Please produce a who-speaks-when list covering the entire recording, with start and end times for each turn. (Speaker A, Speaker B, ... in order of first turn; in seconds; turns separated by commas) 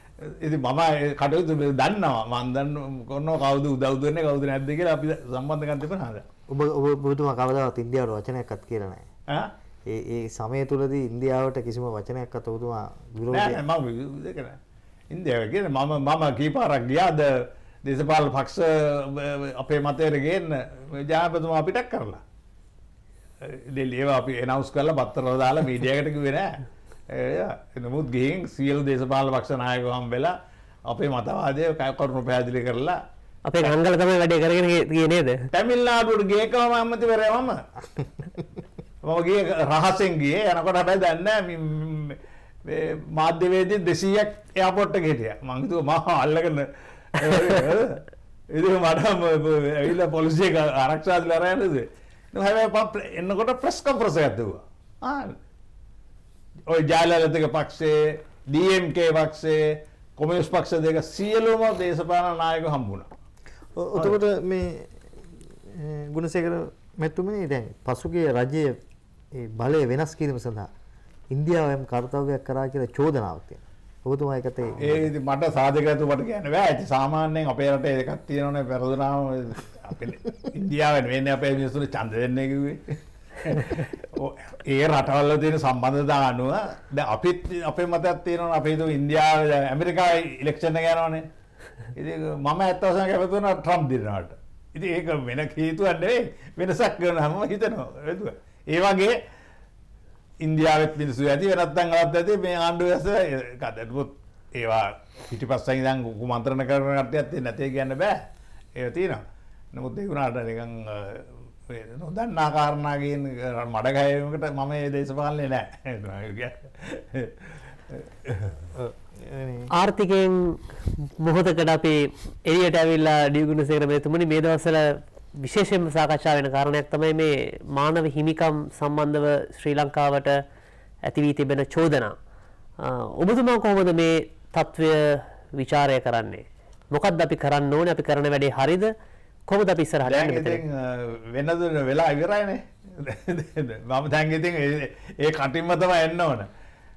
Speaker A: 0.2-6.2, Speaker B: 6.5-9.1, Speaker B: 9.9-13.6, Speaker A: 13.3-14.6, Speaker A: 15.1-22.2, Speaker A: 23.4-26.5, Speaker A: 27.1-30.3, Speaker A: 30.9-33.0, Speaker C: 33.5-35.5, Speaker A: 35.5-37.6, Speaker A: 39.0-55.4, Speaker A: 56.7-63.1, Speaker B: 63.8-68.8, Speaker B: 69.3-70.7, Speaker B: 71.3-75.1, Speaker A: 74.8-91.3, Speaker A: 92.0-99.2, Speaker A: 100.4-108.2, Speaker A: 108.8-118.7, Speaker B: 118.8-119.7, Speaker C: 119.7-130.4, Speaker C: 131.1-132.2, Speaker C: 132.8-138.9, Speaker C: 139.5-140.6, Speaker A: 140.1-146.5